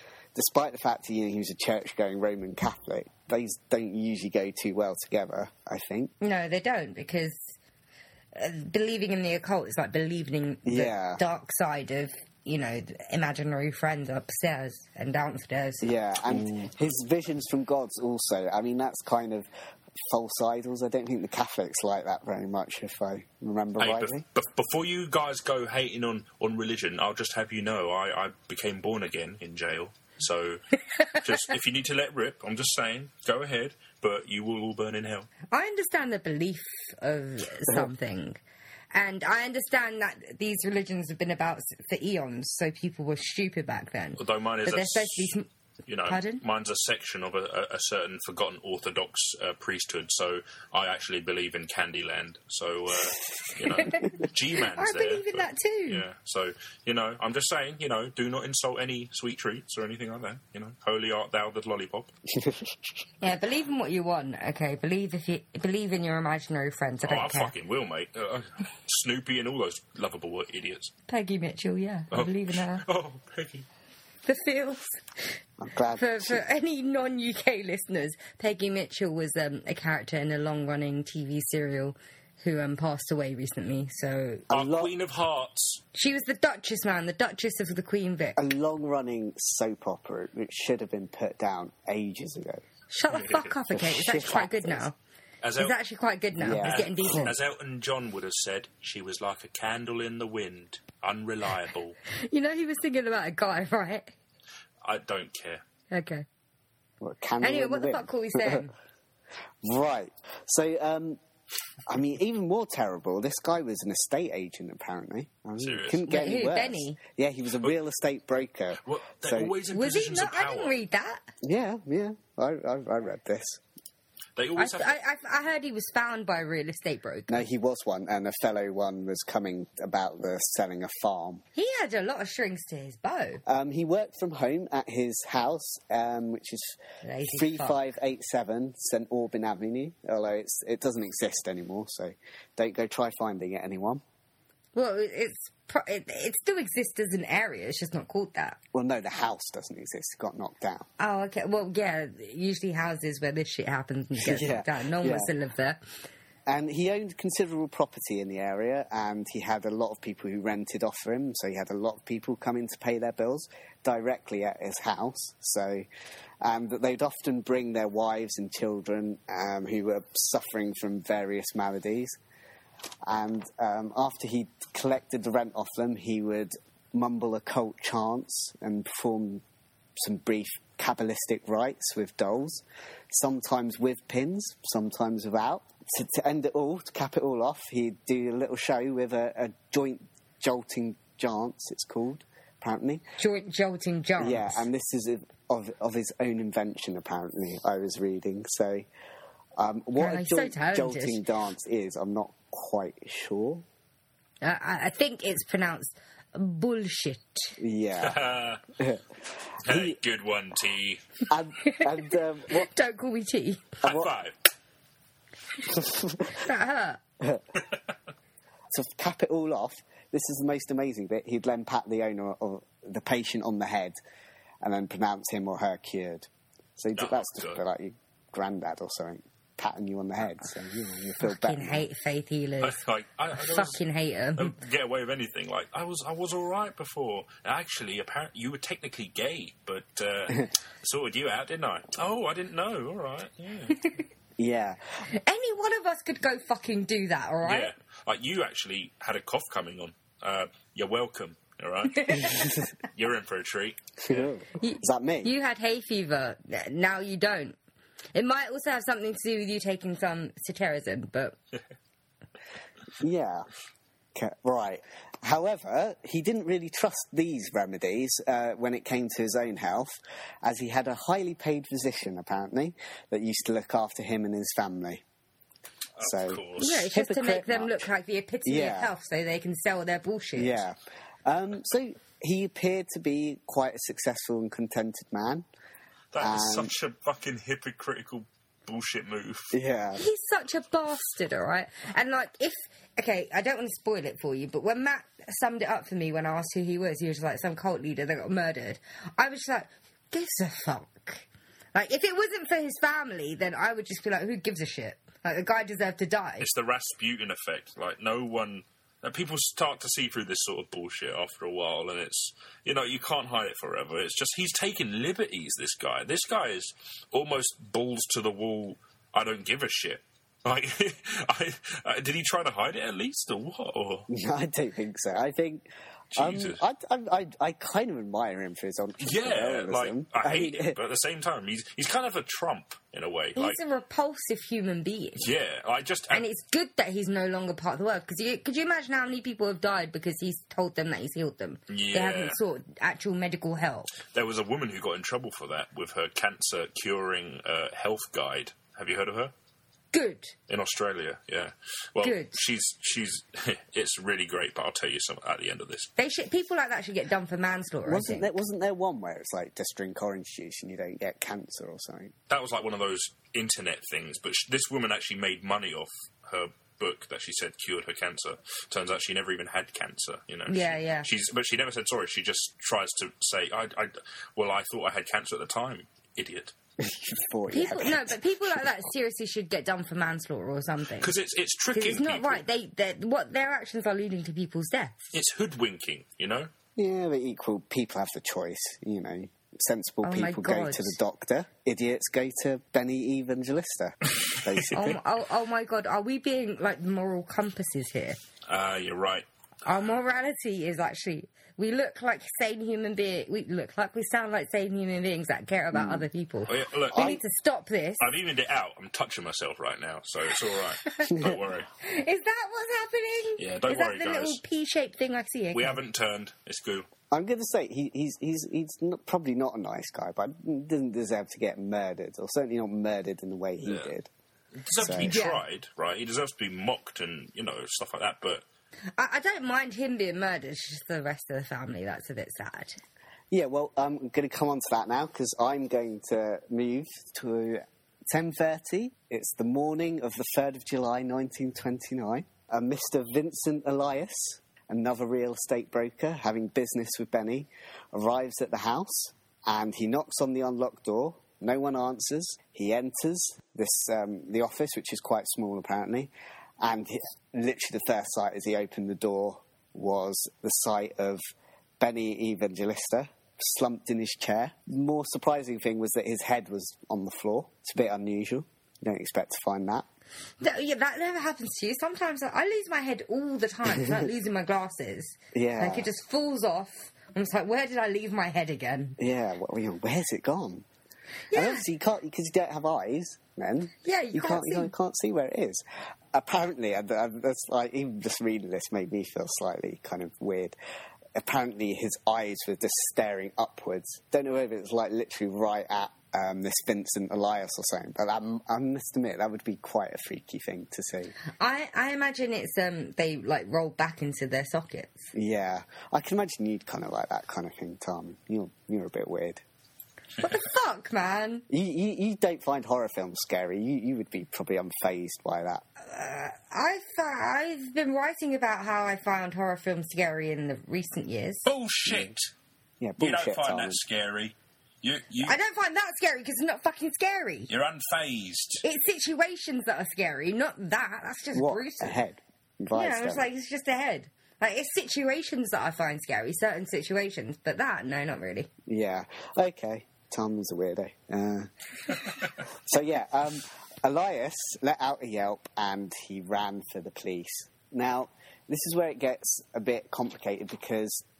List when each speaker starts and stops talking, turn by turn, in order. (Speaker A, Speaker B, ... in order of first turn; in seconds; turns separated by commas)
Speaker A: 0.3-6.1, Speaker B: 6.2-7.5, Speaker B: 8.3-15.9, Speaker A: 10.7-11.2, Speaker A: 15.8-19.5, Speaker A: 20.1-24.2, Speaker C: 23.8-35.3, Speaker B: 35.5-38.4, Speaker B: 38.9-45.5, Speaker C: 44.2-45.4, Speaker C: 45.9-62.1, Speaker B: 46.1-46.4, Speaker B: 53.8-56.0, Speaker A: 62.3-62.7, Speaker B: 63.2-67.5, Speaker C: 67.0-70.9, Speaker B: 71.1-72.8, Speaker C: 72.1-73.7, Speaker B: 74.2-75.3, Speaker A: 75.6-76.4, Speaker B: 76.0-84.5, Speaker A: 84.5-84.9, Speaker C: 84.5-85.8, Speaker B: 85.9-88.4, Speaker A: 88.4-92.6, Speaker B: 92.9-95.0, Speaker C: 93.1-93.5, Speaker A: 93.7-94.9, Speaker C: 95.4-95.8, Speaker B: 95.6-97.4, Speaker A: 96.4-97.3, Speaker C: 96.5-102.0, Speaker B: 102.1-104.1, Speaker C: 104.8-105.6, Speaker B: 105.9-106.3, Speaker A: 107.0-108.7, Speaker B: 107.4-108.7, Speaker A: 109.6-111.2, Speaker A: 111.9-119.5, Speaker C: 115.6-116.1, Speaker B: 116.1-117.0, Speaker C: 118.8-120.8, Speaker B: 119.7-121.3, Speaker A: 121.4-123.6, Speaker C: 124.4-124.9, Speaker B: 124.6-127.4, Speaker A: 127.3-131.4, Speaker B: 131.6-133.4, Speaker A: 133.5-136.8, Speaker B: 137.0-137.8, Speaker A: 137.3-144.0, Speaker B: 144.7-148.6, Speaker A: 148.7-150.9, Speaker B: 151.0-155.8, Speaker A: 154.2-155.3, Speaker A: 156.5-165.9, Speaker A: 166.4-172.2, Speaker A: 173.1-179.4, Speaker A: 180.0-193.0, Speaker B: 193.2-194.7, Speaker A: 194.2-198.9, Speaker A: 199.6-203.6, Speaker B: 200.0-201.2, Speaker B: 204.4-207.6, Speaker A: 207.6-208.2, Speaker C: 208.0-208.6, Speaker A: 208.8-209.0, Speaker C: 209.6-211.0, Speaker A: 209.7-210.0, Speaker A: 211.3-212.7, Speaker B: 212.5-213.8, Speaker C: 213.8-214.4, Speaker A: 213.8-214.1, Speaker A: 215.7-216.4, Speaker B: 216.4-217.0, Speaker A: 218.7-224.0, Speaker A: 224.6-231.9, Speaker C: 226.9-227.6, Speaker B: 231.2-232.8, Speaker C: 232.6-233.8, Speaker B: 233.3-234.6, Speaker C: 234.4-243.8, Speaker A: 244.4-244.8, Speaker B: 245.1-247.7, Speaker C: 247.4-254.3, Speaker B: 251.9-252.5, Speaker A: 252.3-252.6, Speaker A: 254.0-255.3, Speaker B: 254.6-257.6, Speaker B: 258.1-261.4, Speaker A: 263.0-263.5, Speaker A: 264.1-275.0, Speaker C: 276.0-276.9, Speaker A: 276.0-277.9, Speaker B: 276.6-280.6, Speaker A: 278.4-278.9, Speaker A: 280.4-285.4, Speaker C: 286.1-289.6, Speaker A: 286.2-286.7, Speaker A: 289.5-290.0, Speaker B: 290.0-306.5, Speaker C: 306.4-324.1, Speaker A: 324.1-325.6, Speaker C: 326.1-326.6, Speaker A: 326.2-330.8, Speaker C: 329.0-333.6, Speaker B: 333.4-335.3, Speaker C: 335.2-336.2, Speaker B: 336.1-344.0, Speaker C: 341.7-342.4, Speaker C: 344.1-349.3, Speaker B: 349.9-350.4, Speaker C: 350.5-355.9, Speaker B: 352.0-352.4, Speaker B: 356.0-358.3, Speaker A: 357.9-362.1, Speaker C: 362.3-376.6, Speaker B: 370.5-371.1, Speaker A: 376.8-378.2, Speaker B: 377.5-381.1, Speaker C: 381.0-382.4, Speaker B: 381.8-385.1, Speaker C: 385.1-386.5, Speaker A: 386.8-395.0, Speaker B: 390.0-391.0, Speaker B: 394.7-398.2, Speaker C: 398.5-399.3, Speaker B: 399.6-408.1, Speaker A: 405.7-406.1, Speaker C: 406.5-407.2, Speaker A: 406.9-407.2, Speaker C: 408.0-411.7, Speaker B: 411.8-415.8, Speaker C: 413.4-414.4, Speaker C: 415.5-416.9, Speaker A: 417.1-424.1, Speaker C: 423.6-423.9, Speaker C: 424.6-428.4, Speaker A: 424.8-425.2, Speaker B: 425.0-425.4, Speaker B: 429.0-432.8, Speaker A: 433.3-461.2, Speaker A: 461.8-469.9, Speaker B: 470.4-479.0, Speaker A: 473.7-474.0, Speaker A: 475.3-475.9, Speaker A: 479.0-480.6, Speaker B: 481.3-481.7, Speaker A: 481.3-490.6, Speaker B: 483.8-484.7, Speaker A: 491.2-501.1, Speaker B: 501.3-505.1, Speaker A: 505.1-509.4, Speaker B: 510.2-511.4, Speaker A: 511.5-515.6, Speaker B: 515.8-521.5, Speaker C: 521.5-522.3, Speaker A: 522.8-523.8, Speaker C: 523.0-525.4, Speaker B: 525.2-527.5, Speaker C: 527.5-528.6, Speaker B: 528.6-532.0, Speaker A: 531.3-533.3, Speaker B: 532.7-538.5, Speaker A: 538.7-551.0